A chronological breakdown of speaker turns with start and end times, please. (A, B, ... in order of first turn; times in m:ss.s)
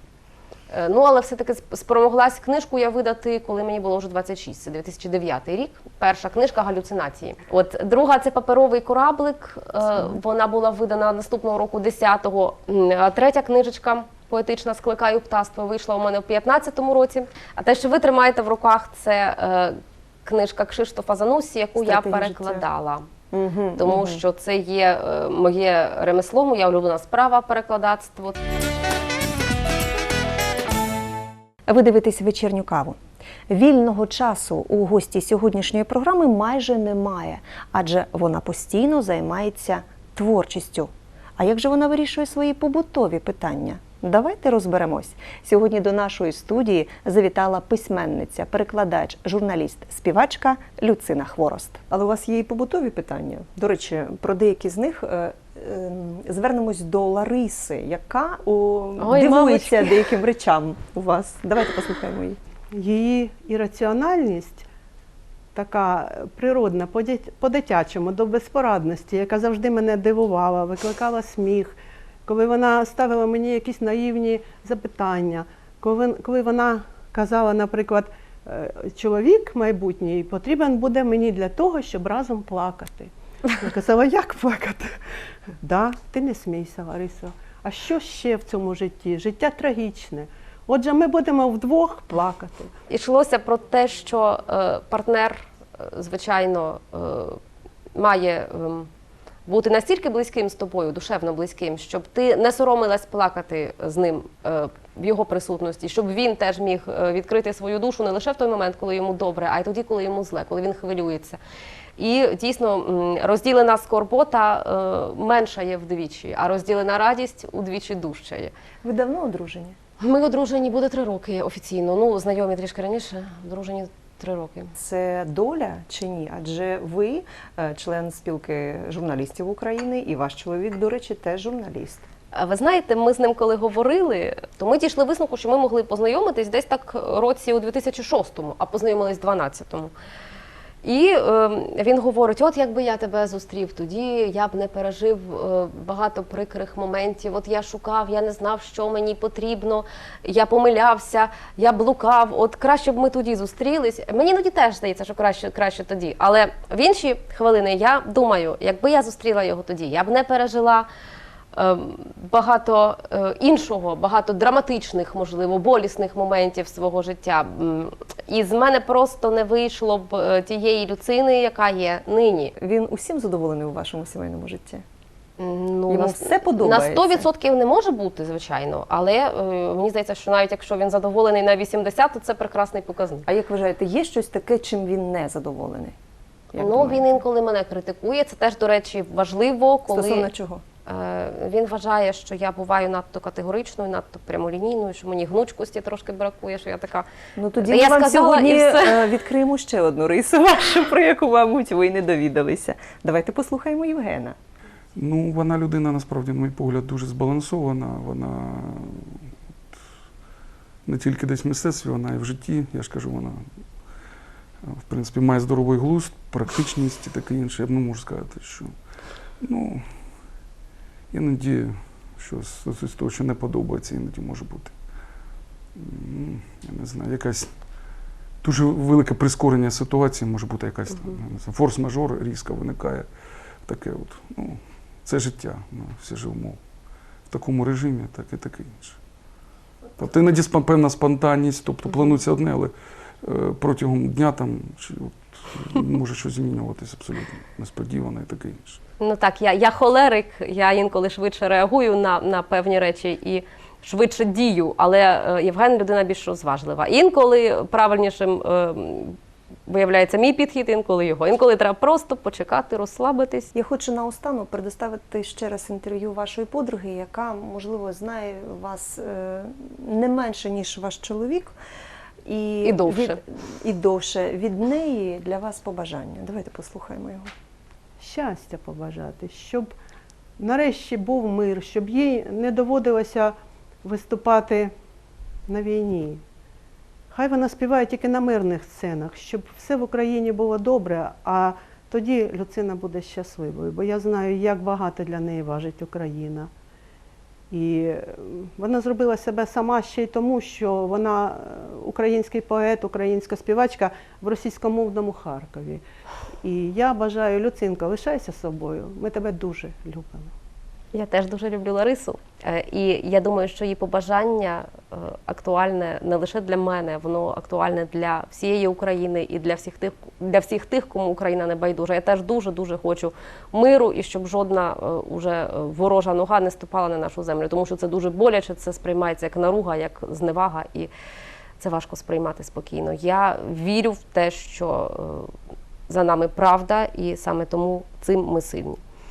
0:00.7-0:23.1 A
0:21.8-0:22.6 B
0:23.3-0:24.2 B
0:23.8-0:28.4 A
0:31.7-1:02.4 B
0:59.0-1:00.1 A
1:02.7-1:04.6 C
1:05.5-1:24.9 C
1:25.6-1:32.7 C
1:32.9-1:37.4 A
1:37.9-1:38.9 A
1:39.4-1:51.4 A
1:52.0-1:58.5 A
1:58.8-1:59.8 B
2:00.0-2:04.7 A
2:04.7-2:12.0 B
2:12.3-2:19.9 A
2:20.8-2:40.9 A
2:41.5-2:52.5 A
2:52.6-2:54.8 B
2:55.4-3:03.2 A
2:55.9-2:57.3 B
3:03.3-3:06.0 B
3:06.5-3:07.1 B
3:06.6-3:10.3 A
3:09.9-3:10.6 B
3:10.8-3:17.1 A
3:17.4-3:24.4 B
3:17.6-3:19.1 A
3:25.0-3:29.2 D
3:30.8-3:33.4 D
3:34.6-3:38.7 D
3:39.4-3:39.8 D
3:41.1-3:44.7 D
3:45.8-3:47.5 D
3:48.4-3:53.1 D
3:53.6-3:56.6 D
3:57.3-3:59.0 D
4:00.0-4:08.8 D
4:09.0-4:23.5 A
4:23.5-4:31.5 B
4:32.2-4:37.3 B
4:32.6-4:33.2 A
4:38.0-4:39.7 C
4:40.4-4:44.7 C
4:45.5-4:46.2 C
4:47.1-4:56.5 C
4:57.5-5:05.8 C
5:06.4-5:10.3 C
5:10.9-5:30.9 A
5:31.6-5:35.3 A
5:35.9-5:38.8 A